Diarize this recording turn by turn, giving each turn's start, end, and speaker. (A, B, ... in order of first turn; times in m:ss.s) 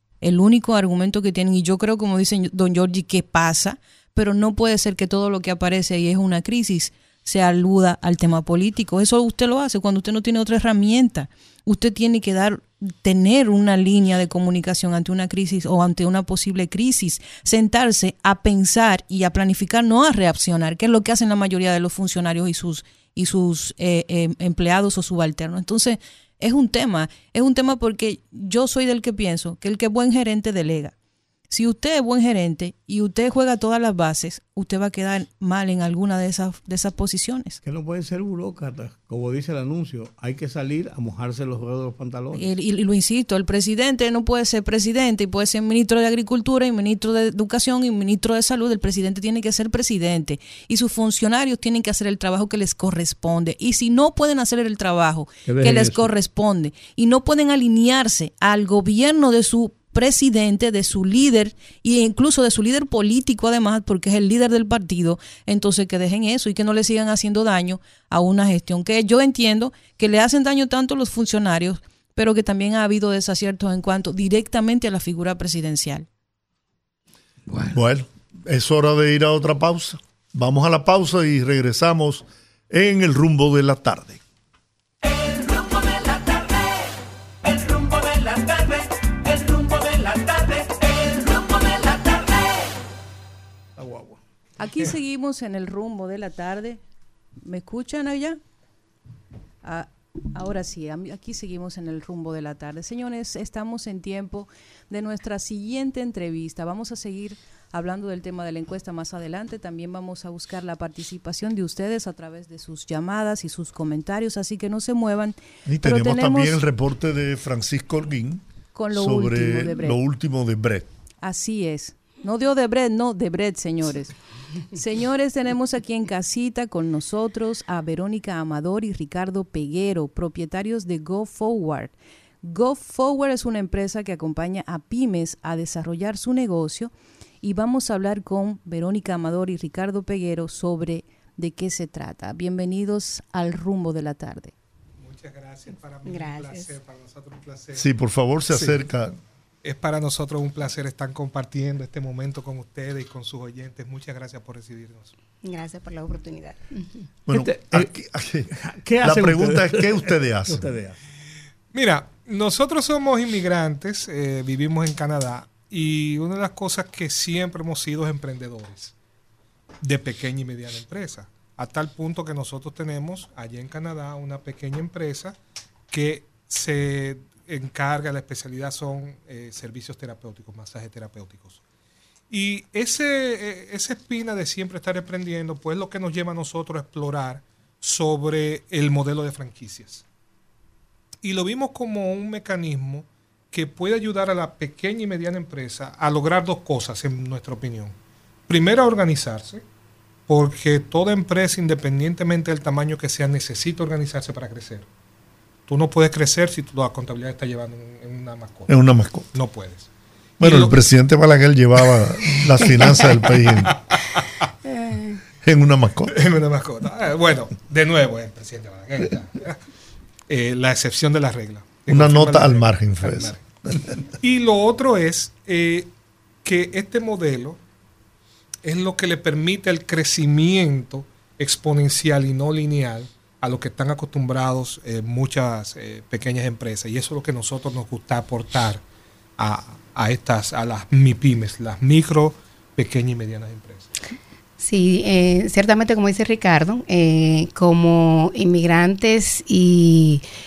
0:00.2-0:30.9 A
0:31.5-0:37.6 A
0:37.6-0:42.4 B
0:42.3-1:16.1 A
0:55.5-0:56.1 B
1:17.5-1:17.8 B
1:17.7-1:24.2 C
1:33.8-1:34.2 B
1:34.6-1:36.8 A
1:37.4-1:38.4 A
1:39.6-1:56.6 A
1:55.7-2:00.9 C
1:58.8-2:00.0 A
2:01.2-2:04.1 A
2:04.7-2:24.5 A
2:25.0-2:27.9 D
2:26.0-2:26.7 E
2:27.7-2:29.2 C
2:28.5-2:28.8 D
2:29.6-2:35.1 D
2:35.4-2:37.1 E
2:37.3-2:38.5 C
2:37.3-2:37.9 B
2:38.5-2:41.0 B
2:39.0-2:40.7 C
2:41.7-2:48.9 D
2:49.8-2:55.4 D
2:55.9-3:01.6 D
3:02.3-3:10.0 D
3:11.2-3:18.0 D
3:18.5-3:19.6 D
3:20.3-3:24.9 D
3:25.7-3:28.7 D
3:28.7-3:29.3 C
3:29.3-3:29.9 D
3:30.4-3:33.7 C
3:30.4-3:30.8 D
3:32.6-3:34.0 D
3:34.6-3:35.2 E
3:35.4-3:36.1 C
3:36.1-3:39.6 D
3:40.3-3:43.4 D
3:41.9-3:44.0 C
3:44.2-3:45.9 D
3:46.4-3:47.6 D
3:48.6-3:58.8 D
3:59.4-4:03.9 D
4:04.6-4:10.2 E